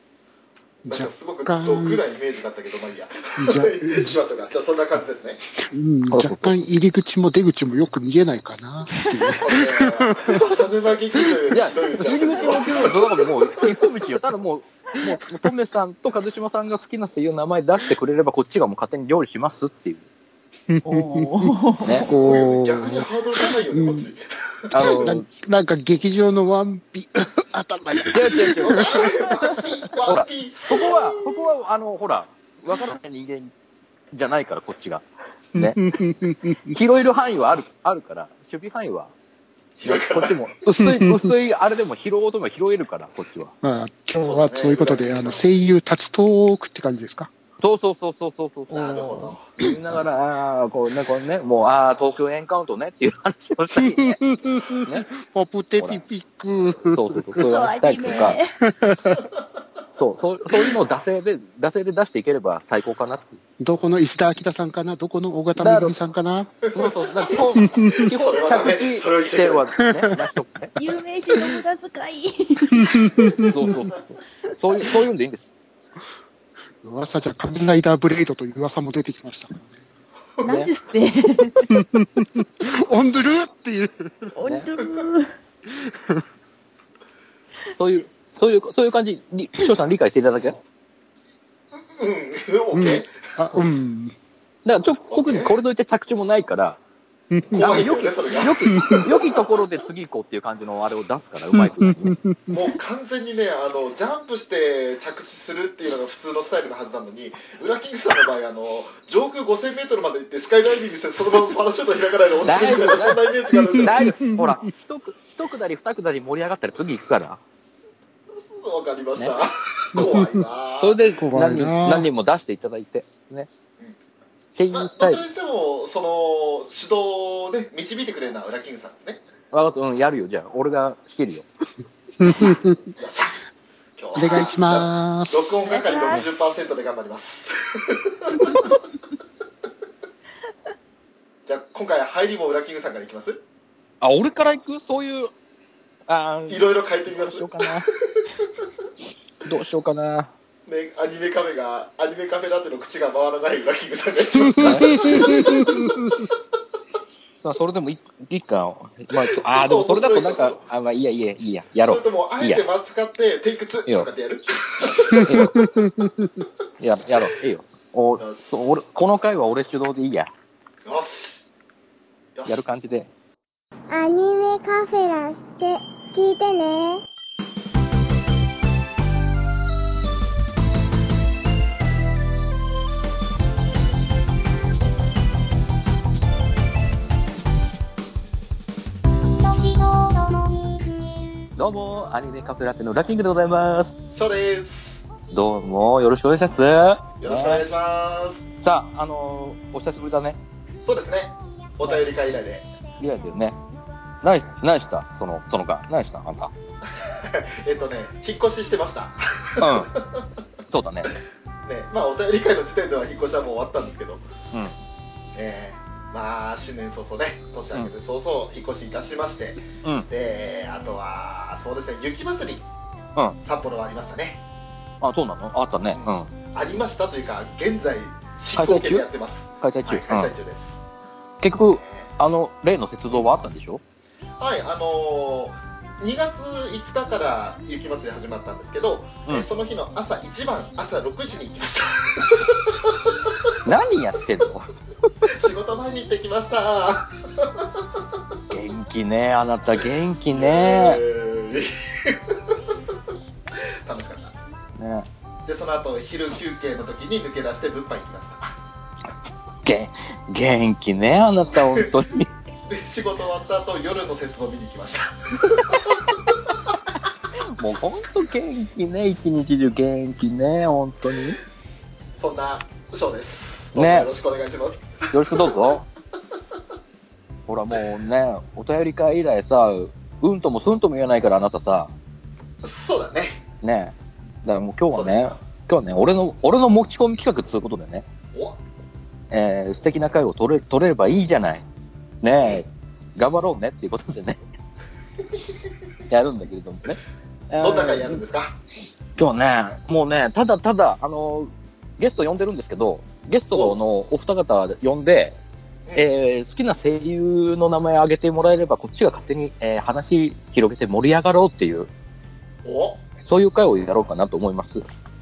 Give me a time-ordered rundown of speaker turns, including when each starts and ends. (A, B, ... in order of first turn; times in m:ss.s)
0:00.8-0:02.0 A
0:00.9-0:05.4 B
0:03.4-0:04.2 A
0:05.6-0:10.4 A
0:06.1-0:06.5 C
0:09.4-0:13.3 B
0:11.5-0:20.0 C
0:20.7-0:24.1 A
0:20.8-0:22.1 D
0:21.8-0:22.1 C
0:22.1-0:24.7 B
0:24.7-0:25.2 C
0:24.8-0:28.7 A
0:28.1-0:29.1 C
0:28.6-0:30.8 B
0:29.4-0:29.9 A
0:30.0-0:33.5 C
0:34.1-0:35.8 C
0:35.6-0:36.7 A
0:36.7-0:39.1 C
0:39.8-0:40.4 B
0:39.8-0:43.5 C
0:40.8-0:41.3 A
0:43.6-0:47.3 A
0:44.2-0:45.4 B
0:47.6-0:54.2 C
0:48.7-0:49.5 B
0:53.7-0:57.4 A
0:54.8-0:55.1 C
0:56.9-0:58.4 C
0:57.4-0:58.5 D
0:58.6-0:59.2 A
1:00.0-1:03.4 C
1:03.6-1:06.6 A
1:05.6-1:05.9 C
1:06.6-1:06.9 B
1:06.7-1:10.7 C
1:07.6-1:08.0 A
1:08.0-1:09.8 B
1:10.8-1:13.3 D
1:12.7-1:13.5 A
1:13.5-1:15.5 C
1:16.8-1:19.8 A
1:20.4-1:21.7 D
1:20.4-1:20.7 C
1:21.7-1:24.3 A
1:24.4-1:25.3 D
1:25.7-1:26.2 A
1:27.8-1:30.6 C
1:31.9-1:33.6 B
1:32.7-1:34.1 A
1:34.6-1:36.8 C
1:35.1-1:35.5 B
1:37.3-1:37.6 A
1:37.5-1:39.6 B
1:37.5-1:42.2 C
1:41.5-1:42.7 A
1:42.5-1:54.1 B
1:52.4-1:53.2 C
1:53.5-1:54.5 A
1:53.8-1:57.4 C
1:58.4-2:01.0 B
2:00.0-2:00.4 A
2:00.8-2:03.5 C
2:01.2-2:02.1 A
2:04.6-2:05.2 C
2:04.7-2:09.2 B
2:09.5-2:11.5 C
2:12.2-2:12.9 A
2:13.0-2:13.3 B
2:14.0-2:18.7 B
2:14.1-2:15.5 A
2:15.6-2:16.2 D
2:21.4-2:23.4 B
2:24.0-2:25.3 C
2:26.1-2:27.9 C
2:26.5-2:27.8 B
2:29.4-2:30.3 C
2:30.7-2:36.2 B
2:34.4-2:36.2 A
2:34.6-2:35.5 C
2:37.4-2:42.6 C
2:39.4-2:40.6 B
2:41.9-2:45.5 B
2:45.1-2:46.4 A
2:45.2-2:45.6 C
2:46.8-2:50.3 C
2:48.2-2:48.5 B
2:50.8-2:51.4 B
2:52.3-2:52.6 B
2:52.4-2:53.1 C
2:53.9-2:57.0 E
3:09.4-3:10.9 E
3:11.6-3:13.9 C
3:14.1-3:15.0 B
3:15.3-3:17.6 C
3:17.2-3:18.4 B
3:18.6-3:20.4 C
3:20.8-3:22.6 B
3:23.0-3:23.6 C
3:24.2-3:26.5 C
3:27.0-3:30.2 B
3:29.6-3:29.9 C
3:30.7-3:31.1 C
3:31.6-3:34.2 B
3:35.3-3:42.6 B
3:43.4-3:44.4 B
3:45.0-3:46.3 C
3:45.9-3:50.8 B
3:48.6-3:49.0 C
3:49.6-3:50.3 C
3:51.4-3:53.8 C
3:51.7-3:52.1 B
3:54.4-4:03.3 B
4:03.6-4:04.7 C
4:05.3-4:07.8 B
4:08.5-4:11.0 C
4:10.3-4:12.6 B
4:13.6-4:14.3 B
4:14.8-4:15.1 C
4:15.4-4:18.5 B
4:19.6-4:22.3 C
4:22.7-4:26.2 B
4:27.6-4:31.4 C
4:32.2-4:35.6 B
4:33.7-4:34.1 C
4:35.1-4:35.8 C
4:37.5-4:41.9 C
4:42.6-4:43.4 B
4:43.6-4:48.0 C
4:44.9-4:45.3 B
4:48.3-4:48.6 B
4:49.3-4:51.6 C
4:52.2-4:54.4 C
4:56.1-4:58.2 C
4:57.6-4:58.5 B
4:59.2-5:05.4 C
5:05.9-5:11.9 C
5:12.6-5:13.0 B
5:13.2-5:14.8 C